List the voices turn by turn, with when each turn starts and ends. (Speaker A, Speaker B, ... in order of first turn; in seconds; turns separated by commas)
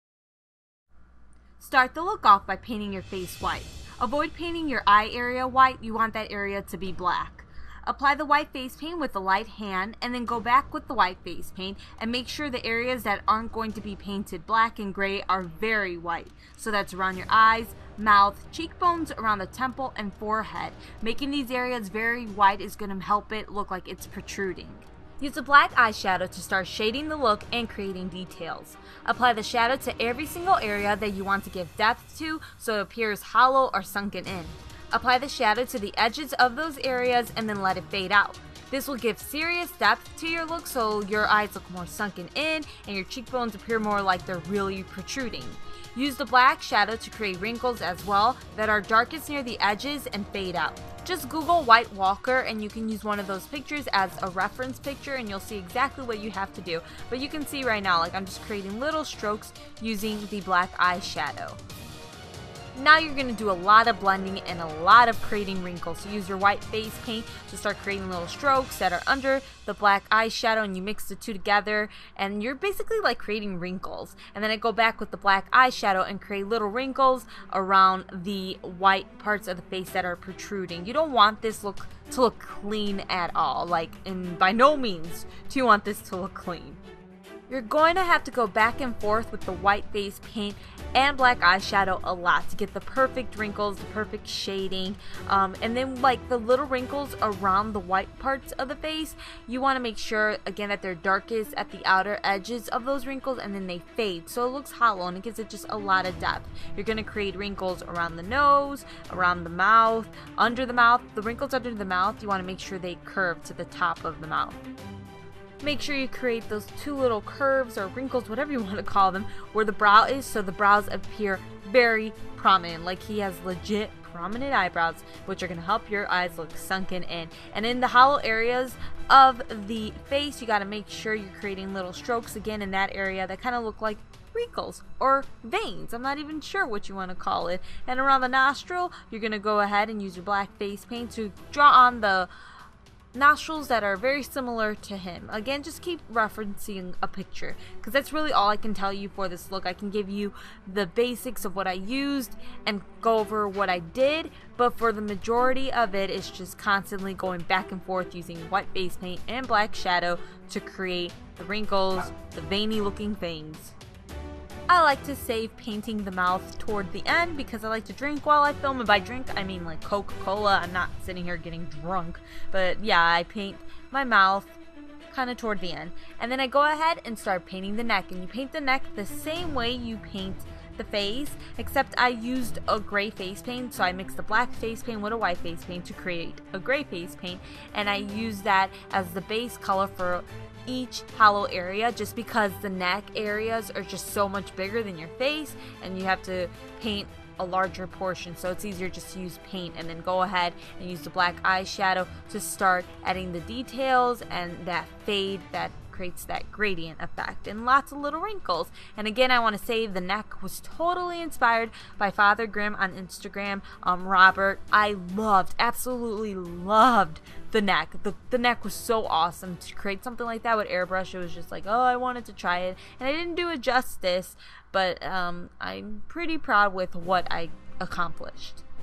Speaker A: 1.6-61.6, Speaker A: 62.8-86.8, Speaker A: 87.5-114.6, Speaker A: 115.6-142.3, Speaker A: 143.1-163.8, Speaker A: 164.7-174.6, Speaker A: 175.1-228.6